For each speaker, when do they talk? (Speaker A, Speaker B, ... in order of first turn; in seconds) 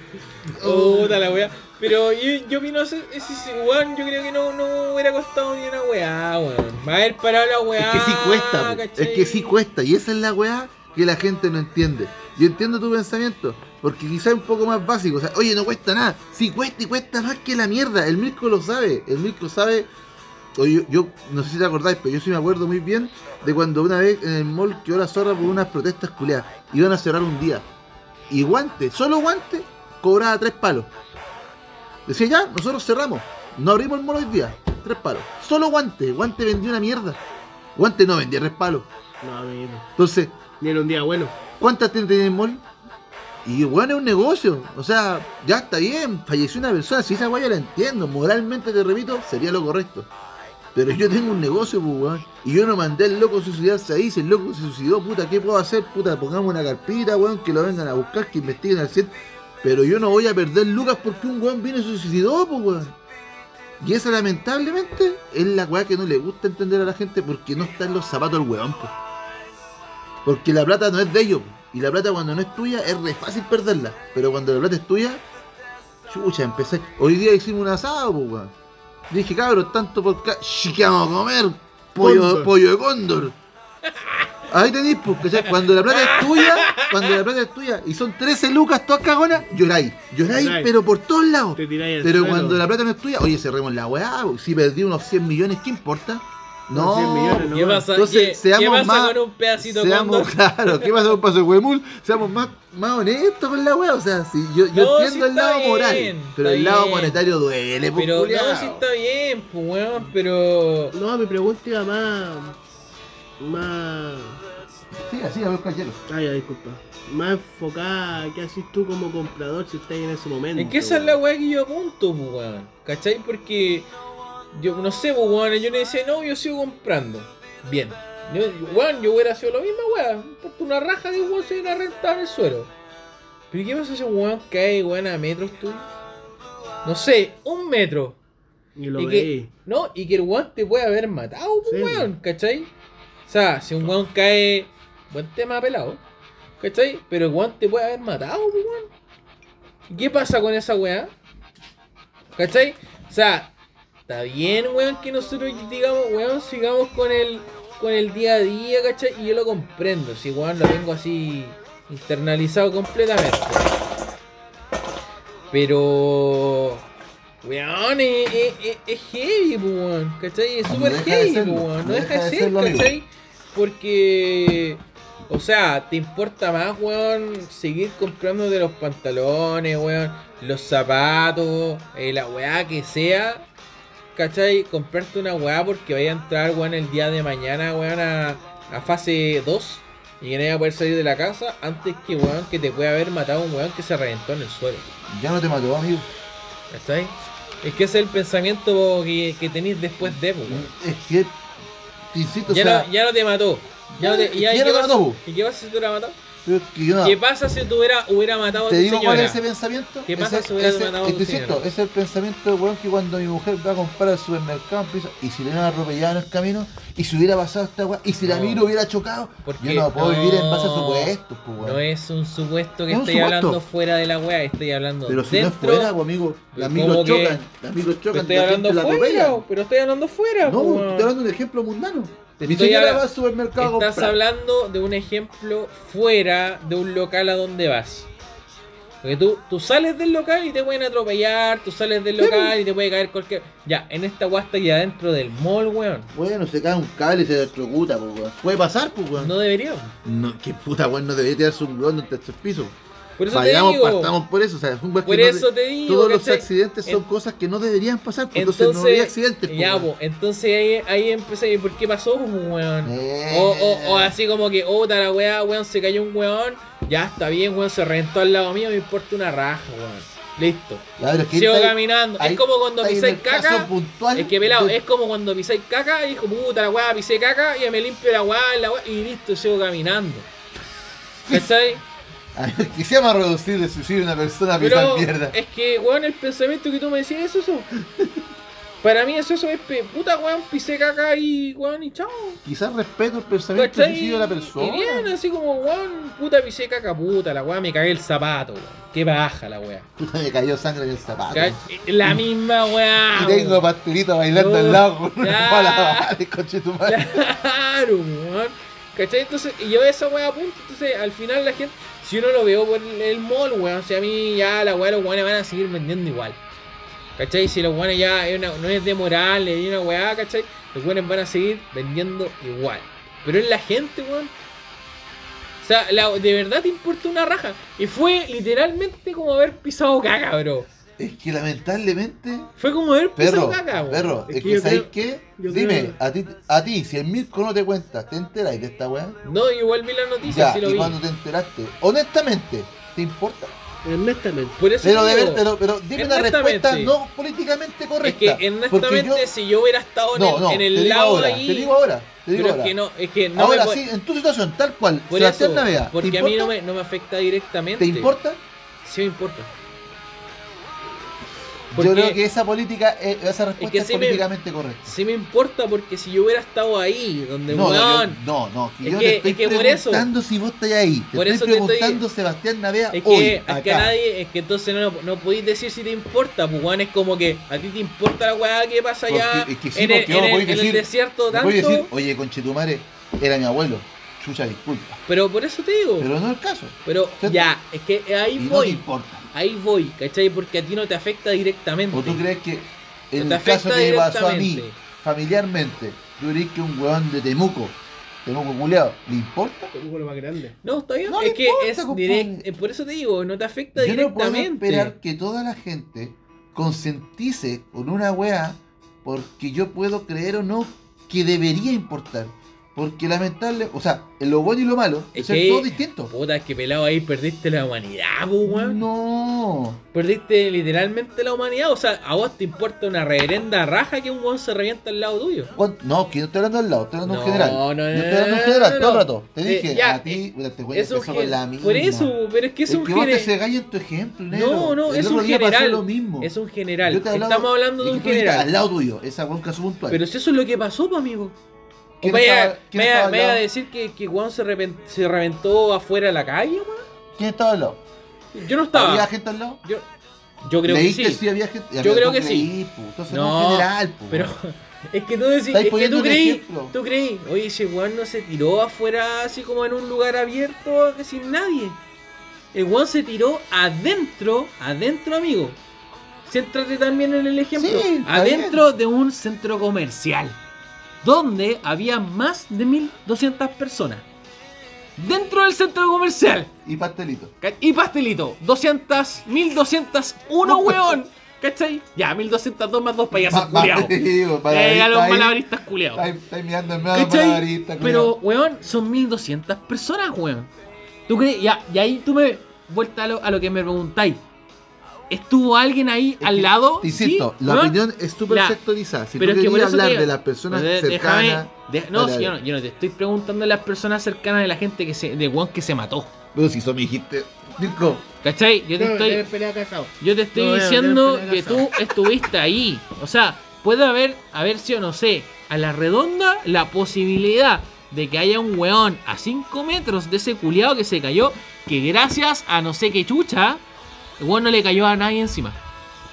Speaker A: 0.5-1.2, 7.8-19.9, 20.6-27.7, 28.3-30.9, 32.0-37.2, 37.8-38.9, 40.0-40.4, 41.6-42.6, 43.4-50.1, 50.7-63.0, 63.8-68.9, 70.2-75.2, 76.1-78.5, 79.1-83.4, 84.5-108.8, 115.0-116.0, 170.6-172.9, 195.1-196.1, 200.4-201.4, 202.1-202.9, 203.9-205.2, 206.4-207.2, 208.6-221.8, 222.9-223.6, 225.1-229.4, 230.4-234.2, 242.2-242.6, 246.1-249.3, 250.0-252.8, 253.3-259.9, 262.8-264.1, 271.0-274.8, 282.3-285.4, 292.4-295.1, 300.0-302.2, 303.1-307.2, 331.0-332.5, 333.1-339.2, 340.2-343.5, 344.8-349.3, 350.1-352.7, 353.3-356.5, 357.8-358.4, 361.7-364.9, 367.5-373.9, 379.1-385.0, 386.0-387.5, 388.4-389.3, 391.9-399.7, 401.1-402.4, 403.7-416.1, 418.4-419.8, 425.5-432.1, 432.7-436.3, 436.8-440.0, 442.0-443.4, 447.1-447.8, 448.7-449.6, 450.6-454.3, 455.5-456.7, 467.6-468.6, 476.6-477.3, 480.4-481.0, 483.1-485.4, 485.9-488.1, 496.2-502.3, 506.3-508.1
Speaker B: 0.6-9.6, 85.4-87.2, 97.4-101.1, 104.7-107.2, 108.0-110.9, 120.5-123.9, 124.5-132.7, 133.5-135.9, 136.8-138.2, 139.0-142.7, 143.3-146.0, 146.6-148.9, 149.9-151.1, 152.4-153.5, 154.1-163.7, 165.5-166.8, 167.4-183.4, 184.1-194.9, 196.7-200.7, 202.5-206.2, 207.0-209.4, 210.1-211.6, 218.2-218.7, 219.4-225.9, 226.5-227.4, 228.1-231.1, 232.4-233.1, 233.6-238.1, 239.0-246.1, 249.1-249.9, 253.2-254.1, 255.0-257.0, 258.3-280.3, 281.3-281.8, 284.6-287.7, 288.8-292.4, 293.5-299.9, 301.3-303.7, 304.3-306.1, 306.8-316.4, 317.2-324.3, 325.6-330.7, 332.6-334.2, 339.2-341.0, 344.6-346.9, 348.0-351.7, 352.3-353.8, 355.1-358.1, 358.8-359.5, 361.7-362.2, 363.6-364.2, 364.9-368.2, 368.8-370.1, 371.1-372.0, 372.9-381.9, 385.1-386.1, 386.9-392.2, 393.2-394.7, 400.6-404.9, 415.1-418.8, 419.9-425.5, 427.1-433.3, 434.3-438.5, 439.9-441.4, 442.0-446.8, 448.3-449.1, 450.4-451.2, 451.8-452.5, 453.1-461.8, 462.5-465.6, 466.2-470.4, 471.0-474.1, 475.0-476.5, 477.4-486.1, 486.9-490.5, 491.1-494.2, 495.1-498.6, 499.2-506.1, 508.2-509.2, 510.0-523.6, 524.2-525.6
Speaker C: 39.2-39.9, 40.6-41.4, 82.0-82.5, 90.3-90.7, 91.5-92.6, 96.7-97.9, 110.9-112.6, 113.4-114.4, 116.1-121.2, 138.8-139.5, 141.7-142.1, 334.3-336.0, 343.8-344.6, 399.7-400.6, 508.8-511.7